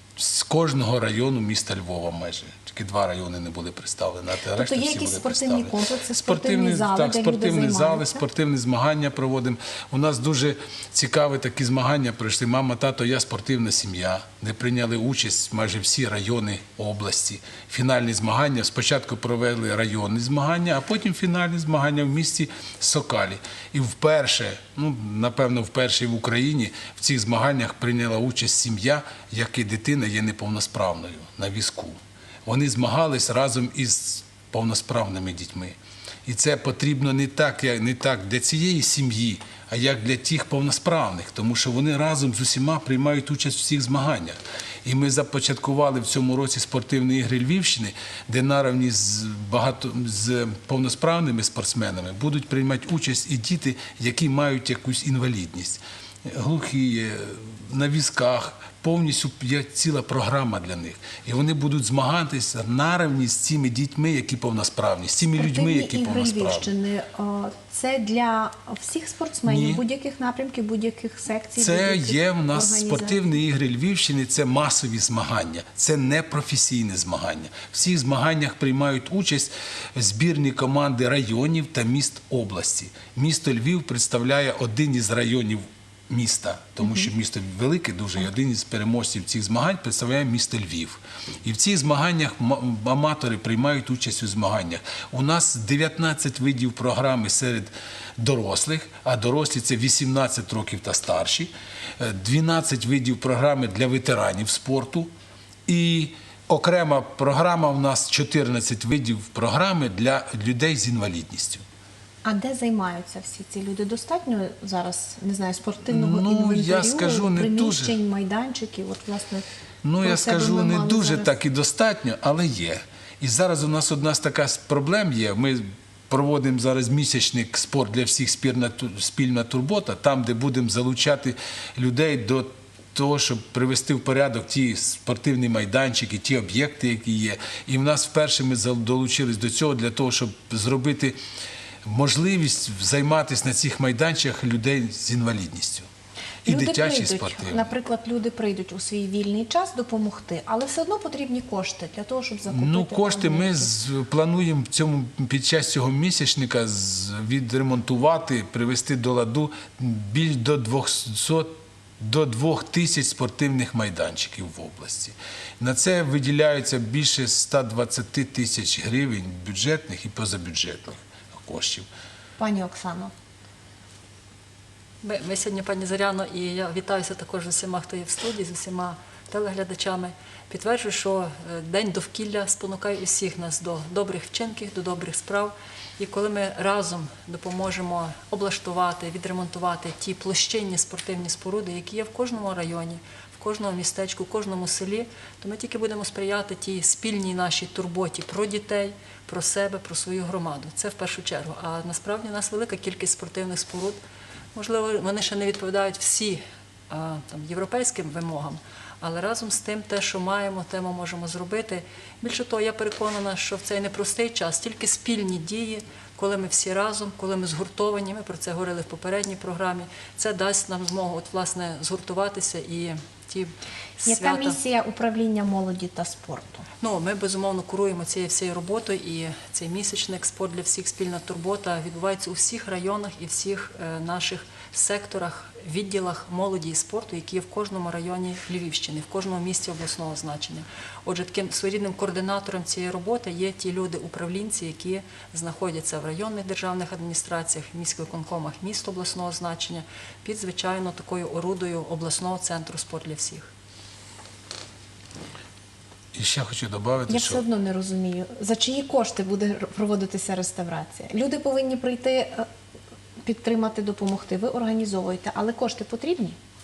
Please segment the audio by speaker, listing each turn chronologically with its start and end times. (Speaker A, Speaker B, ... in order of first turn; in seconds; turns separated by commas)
Speaker A: 0.2-66.7, Speaker B: 4.5-8.2, Speaker B: 65.4-73.3, Speaker A: 69.5-69.8, Speaker A: 71.6-105.1, Speaker A: 105.7-111.6, Speaker B: 112.2-119.5, Speaker A: 115.9-118.0, Speaker A: 119.8-141.2, Speaker B: 120.0-121.3, Speaker A: 141.8-145.9, Speaker A: 146.4-147.7, Speaker B: 146.5-153.7, Speaker A: 152.5-171.9, Speaker B: 172.4-173.1, Speaker C: 175.0-204.0, Speaker C: 204.6-224.6, Speaker B: 224.1-226.7, Speaker C: 226.8-253.5, Speaker A: 256.1-257.4, Speaker B: 257.1-262.5, Speaker B: 263.2-266.4